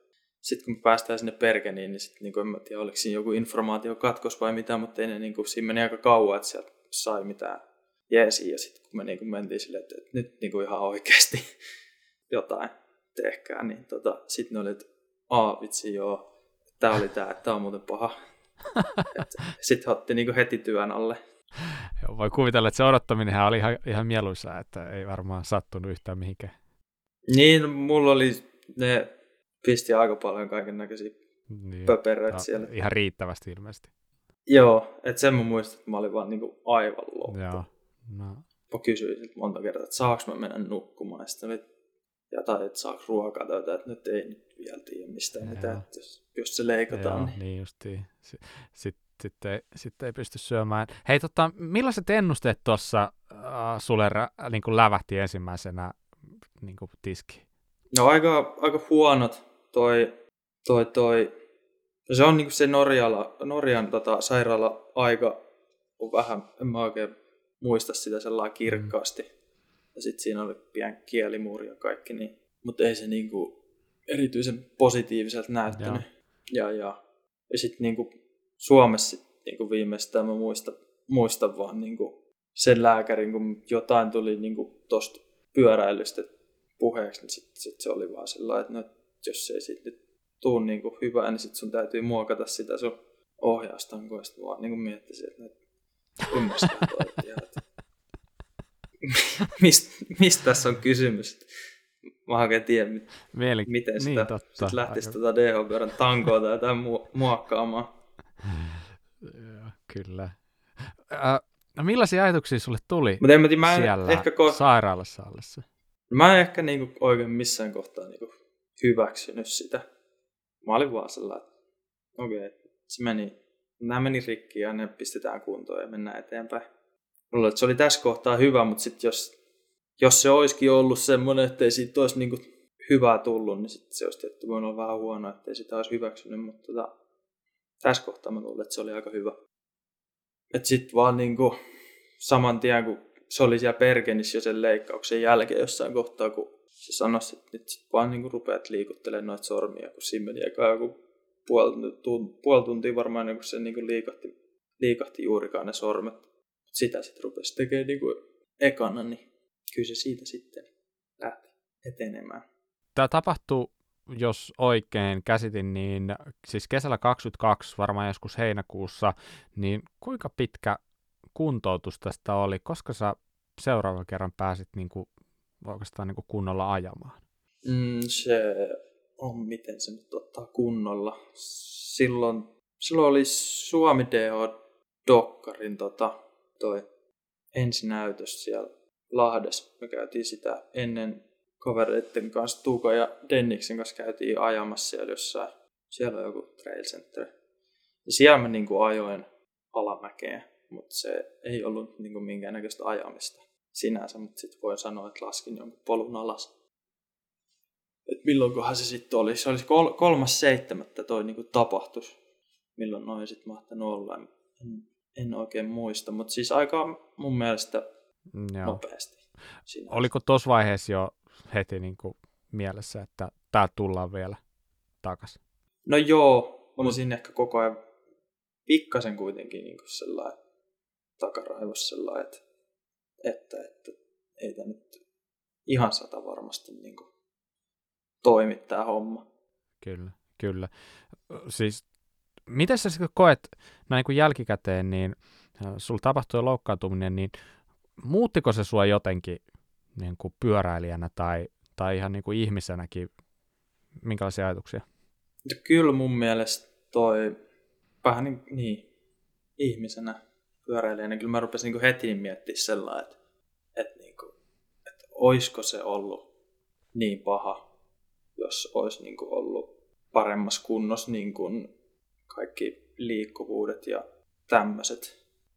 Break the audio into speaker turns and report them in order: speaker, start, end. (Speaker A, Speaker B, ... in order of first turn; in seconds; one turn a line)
Speaker A: 0.4-11.4
Speaker A: 12.3-16.2
Speaker A: 16.8-18.1
Speaker B: 18.7-19.1
Speaker A: 19.1-21.2
Speaker B: 21.6-26.5
Speaker A: 27.3-29.1
Speaker A: 29.6-31.1
Speaker B: 31.5-33.9
Speaker A: 31.8-32.7
Speaker A: 34.5-37.6
Speaker B: 37.3-38.4
Speaker A: 38.7-41.6
Speaker A: 42.3-47.4
Speaker B: 45.5-45.8
Speaker B: 46.9-56.0
Speaker B: 56.6-57.4
Speaker A: 57.9-60.1
Speaker A: 60.6-61.3
Speaker A: 62.1-65.4
Speaker A: 66.0-69.3
Speaker A: 69.9-73.5
Speaker A: 74.1-77.0
Speaker B: 75.7-76.0
Speaker A: 77.5-95.5
Speaker A: 96.3-97.6
Speaker A: 99.0-101.5
Speaker A: 102.2-107.9
Speaker B: 103.3-105.2
Speaker B: 108.4-115.6
Speaker A: 113.2-114.6
Speaker A: 116.1-119.8
Speaker A: 120.6-121.5
Speaker A: 122.2-126.6
Speaker A: 127.3-129.3
Speaker A: 130.0-136.9
Speaker A: 137.8-139.3
Speaker A: 140.5-141.6
Speaker A: 142.2-160.7
Speaker A: 161.2-162.4
Speaker B: 162.9-170.8
Speaker B: 171.3-175.1
Speaker B: 175.6-177.2
Speaker A: 177.6-184.5
Speaker A: 185.0-186.8
Speaker A: 187.5-197.3
Speaker A: 198.1-206.5
Speaker A: 208.1-212.1
Speaker A: 212.8-217.8
Speaker B: 218.3-218.8
Speaker A: 218.6-220.1
Speaker B: 219.9-224.4
Speaker B: 225.0-225.4
Speaker A: 225.8-227.8
Speaker A: 228.7-230.3
Speaker A: 231.2-232.4
Speaker A: 233.2-235.0
Speaker A: 235.7-237.1
Speaker A: 238.2-239.2
Speaker B: 239.8-240.7
Speaker B: 241.3-241.8
Speaker B: 242.5-247.3
Speaker B: 248.0-249.4
Speaker B: 249.9-253.1
Speaker B: 254.0-254.8
Speaker A: 255.4-257.4
Speaker A: 258.0-258.8
Speaker A: 259.6-263.1
Speaker A: 263.8-264.3
Speaker A: 265.0-266.3
Speaker A: 266.9-267.6
Speaker A: 268.4-271.7
Speaker A: 272.3-275.1